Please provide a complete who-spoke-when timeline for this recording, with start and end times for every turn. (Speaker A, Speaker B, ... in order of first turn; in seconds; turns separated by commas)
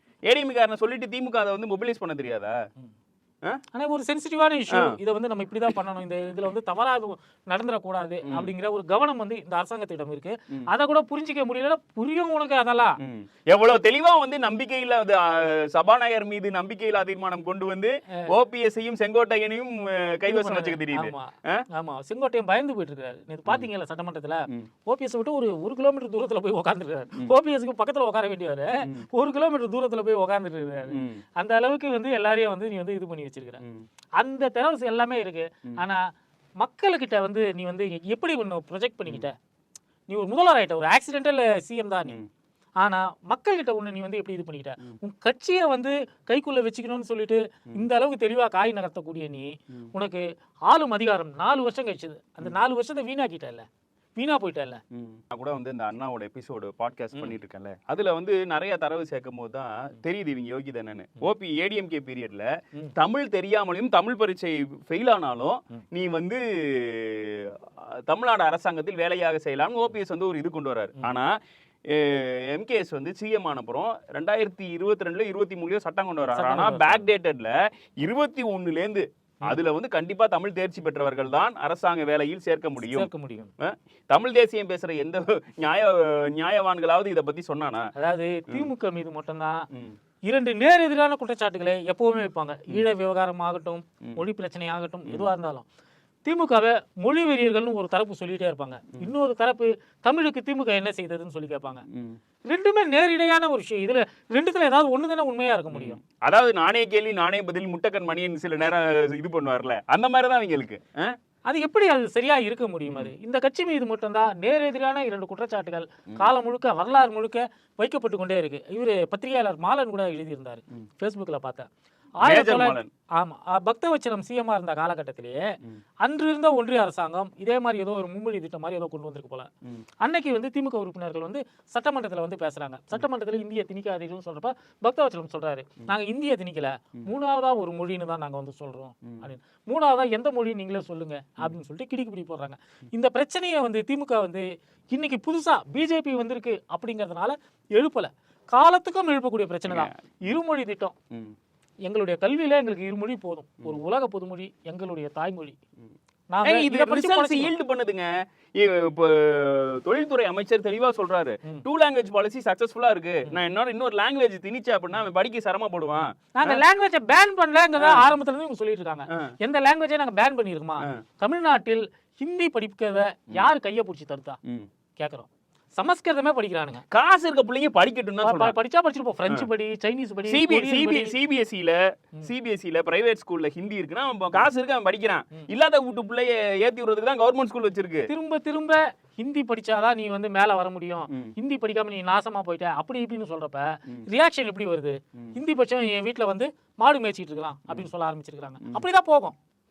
Speaker A: 0.3-2.6, Speaker B: 3.7-13.0, Speaker A: 4.7-5.0, Speaker A: 8.3-8.5, Speaker A: 13.0-21.6, Speaker B: 20.3-33.6, Speaker A: 30.9-31.2, Speaker A: 33.6-33.9, Speaker B: 34.2-36.0, Speaker B: 36.6-39.4, Speaker B: 40.1-42.2, Speaker B: 42.8-53.7, Speaker B: 54.2-54.8, Speaker A: 54.9-71.3, Speaker A: 71.9-83.1, Speaker B: 76.3-77.1, Speaker B: 82.8-83.5, Speaker A: 83.6-87.9, Speaker B: 88.0-89.6, Speaker B: 90.3-95.7, Speaker B: 96.2-101.8, Speaker A: 101.9-102.2, Speaker B: 102.5-106.0, Speaker A: 105.7-111.2, Speaker B: 111.5-121.7, Speaker A: 112.9-113.1, Speaker B: 122.2-129.5, Speaker A: 122.2-122.9, Speaker B: 130.0-150.9, Speaker A: 149.7-150.0, Speaker B: 151.9-155.6, Speaker B: 156.3-157.5, Speaker A: 156.4-166.6, Speaker B: 166.4-174.4, Speaker A: 167.8-168.1, Speaker B: 175.0-176.8, Speaker A: 176.9-178.6, Speaker B: 178.2-181.2, Speaker A: 180.3-188.1, Speaker B: 188.1-199.4, Speaker A: 191.1-191.3